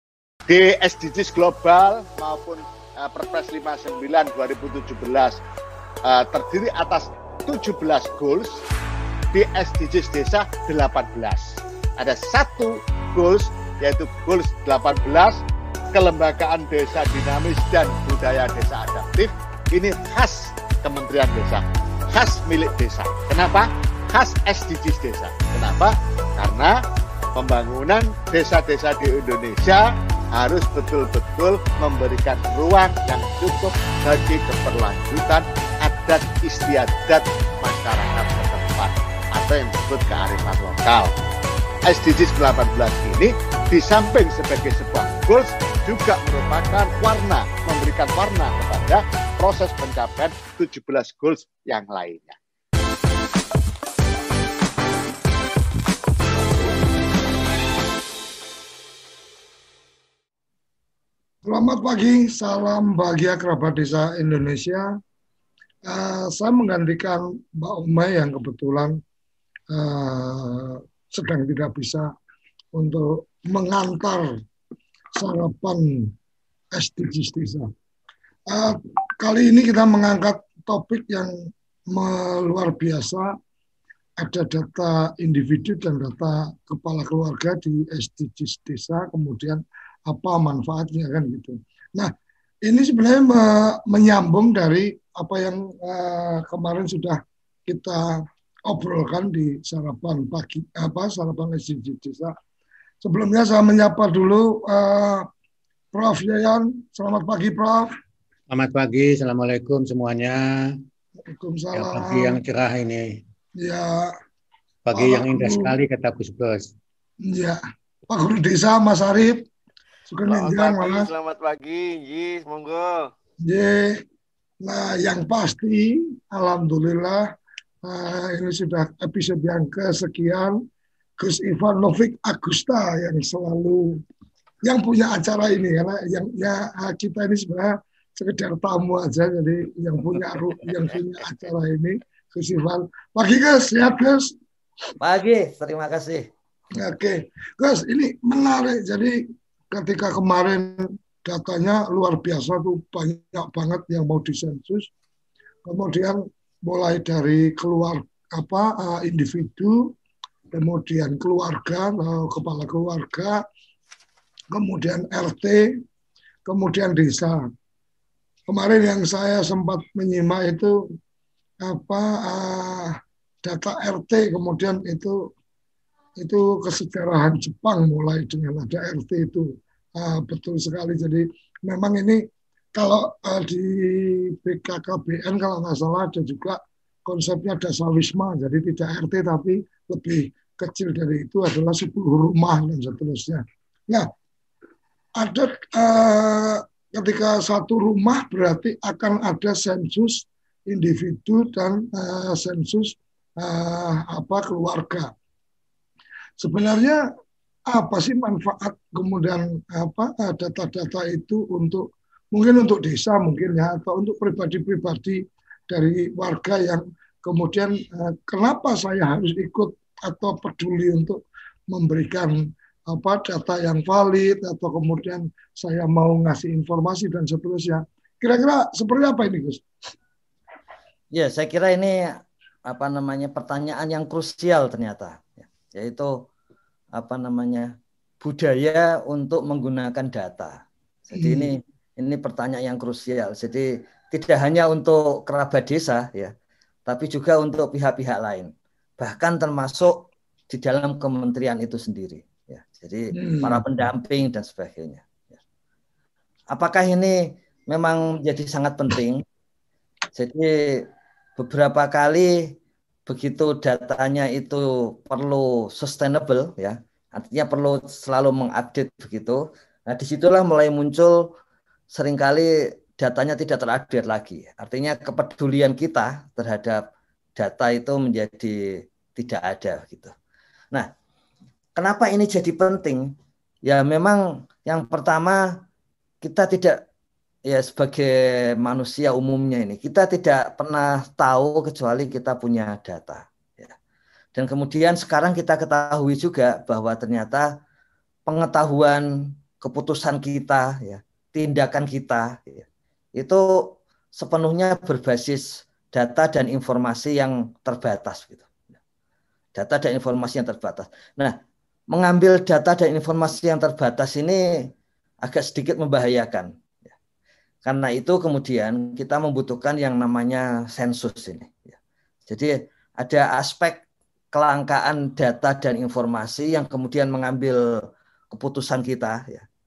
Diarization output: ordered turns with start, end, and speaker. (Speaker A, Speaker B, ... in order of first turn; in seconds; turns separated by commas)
Speaker A: 0.5-5.4, Speaker A: 6.0-8.6, Speaker A: 9.3-15.4, Speaker A: 15.9-26.7, Speaker A: 27.4-41.1, Speaker A: 41.9-52.4, Speaker B: 61.4-64.9, Speaker B: 65.8-69.0, Speaker B: 69.7-72.1, Speaker B: 72.7-74.3, Speaker B: 75.2-76.1, Speaker B: 76.7-77.7, Speaker B: 78.5-81.3, Speaker B: 81.9-83.3, Speaker B: 84.2-92.1, Speaker B: 92.7-102.3, Speaker B: 103.0-105.3, Speaker B: 105.9-107.9, Speaker C: 108.5-110.7, Speaker B: 111.3-112.4, Speaker C: 111.7-113.1, Speaker B: 113.6-114.1, Speaker C: 114.8-116.7, Speaker B: 114.9-115.7, Speaker B: 117.2-119.5, Speaker B: 120.1-121.1, Speaker D: 120.2-123.1, Speaker B: 123.4-124.0, Speaker B: 124.6-127.2, Speaker B: 127.8-130.6, Speaker B: 131.2-134.0, Speaker B: 134.6-144.3, Speaker E: 145.0-146.3, Speaker B: 146.7-154.9, Speaker B: 155.6-159.9, Speaker B: 160.5-163.4, Speaker B: 164.5-165.8, Speaker B: 166.4-167.4, Speaker B: 168.5-170.8, Speaker B: 171.6-175.3, Speaker B: 176.2-182.2, Speaker B: 182.7-194.1, Speaker B: 195.2-205.1, Speaker B: 206.4-207.0, Speaker B: 207.7-229.6, Speaker E: 231.1-232.1, Speaker E: 232.7-236.1, Speaker E: 236.9-246.3, Speaker B: 241.2-241.5, Speaker E: 246.9-249.9, Speaker E: 250.5-255.3, Speaker B: 253.1-253.6, Speaker E: 256.5-257.2, Speaker E: 257.7-259.2, Speaker E: 260.1-260.8, Speaker E: 261.4-262.4, Speaker E: 263.1-271.3, Speaker E: 271.9-276.8, Speaker E: 277.4-278.6, Speaker E: 279.1-280.1, Speaker E: 281.8-283.1, Speaker E: 283.6-285.4, Speaker E: 286.2-286.8, Speaker E: 287.5-293.7, Speaker E: 294.3-297.5, Speaker E: 298.3-299.0, Speaker E: 299.6-302.6, Speaker E: 303.2-303.4, Speaker E: 304.1-308.5, Speaker E: 309.6-311.3, Speaker E: 311.9-314.4, Speaker E: 315.2-316.9, Speaker E: 317.6-321.8, Speaker E: 322.3-323.8, Speaker E: 324.3-327.6, Speaker E: 328.3-329.4